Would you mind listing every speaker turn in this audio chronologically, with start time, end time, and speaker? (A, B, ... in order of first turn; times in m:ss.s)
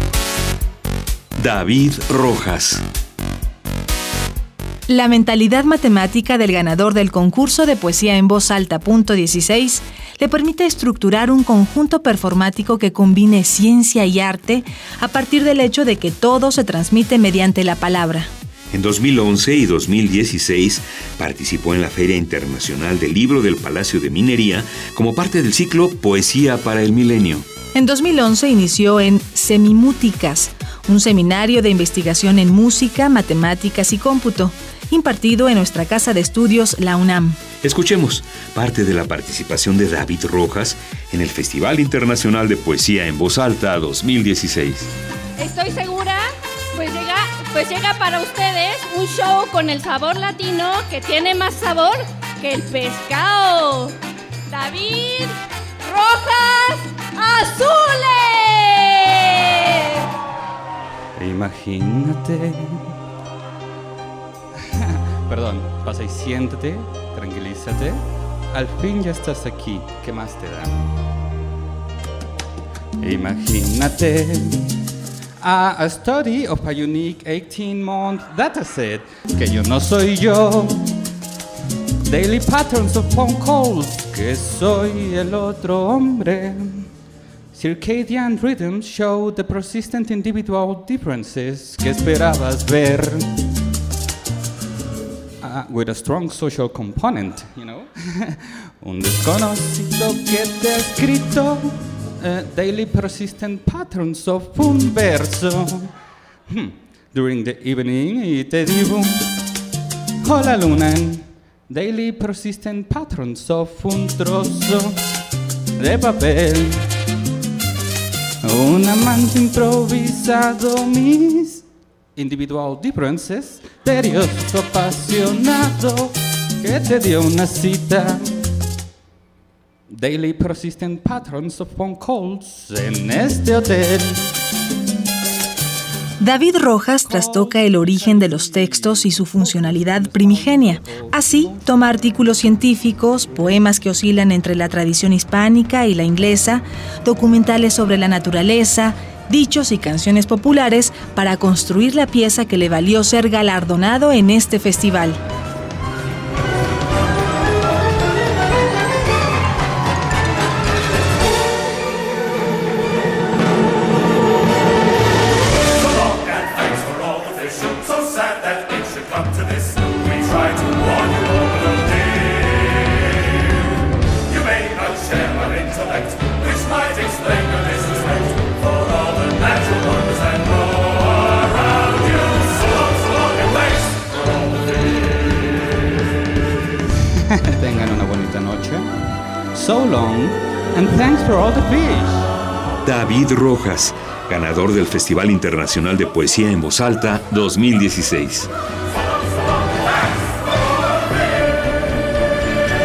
0:01.4-0:02.8 A
0:04.9-0:18.3 B
0:18.7-0:27.5 A
0:27.7-0:37.4 B
0:37.6-0:44.9 A
0:45.4-0:46.2 C
0:46.7-0:54.0 C
0:54.5-1:00.1 C
1:01.2-1:02.9 D
1:04.7-1:10.9 D
1:13.0-1:14.8 D
1:15.4-1:21.0 D
1:22.0-1:26.9 D
1:27.5-1:33.3 D
1:35.4-1:45.9 D
1:46.5-1:49.3 D
1:50.2-1:55.0 D
1:55.8-1:56.9 D
1:58.4-2:08.3 D
2:09.9-2:14.2 D
2:16.2-2:35.2 B
2:17.0-2:21.8 D
3:07.4-3:08.9 D
3:09.5-3:12.3 D
3:12.8-3:18.5 A